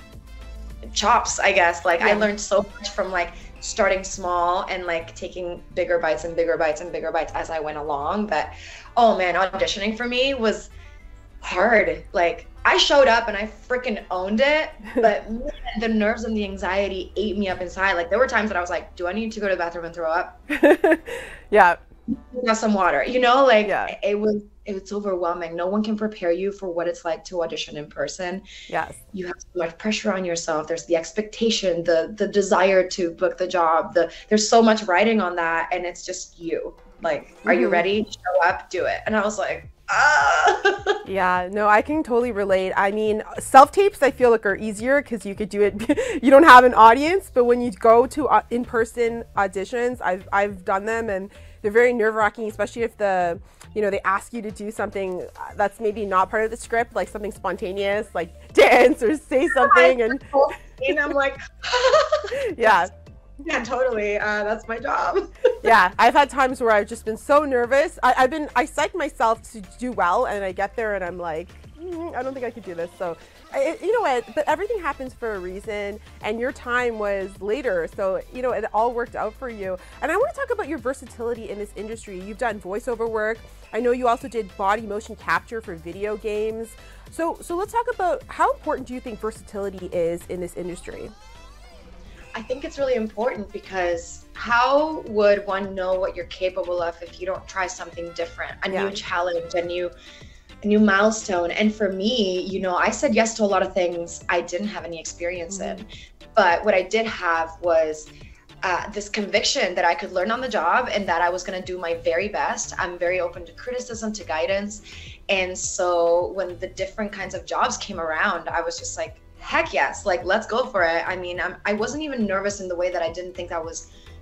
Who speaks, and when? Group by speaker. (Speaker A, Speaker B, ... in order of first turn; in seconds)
Speaker A: 0.9-10.7, 11.4-20.4, 22.1-28.4, 29.1-41.0, 59.5-62.9, 63.4-65.3, 92.3-99.9, 100.6-108.1, 108.6-123.9
Speaker B: 2.0-2.3, 20.5-21.8, 23.6-23.9, 28.7-29.0, 37.4-37.8, 41.0-60.3, 62.5-62.9, 65.6-91.1, 98.7-99.0, 105.5-105.8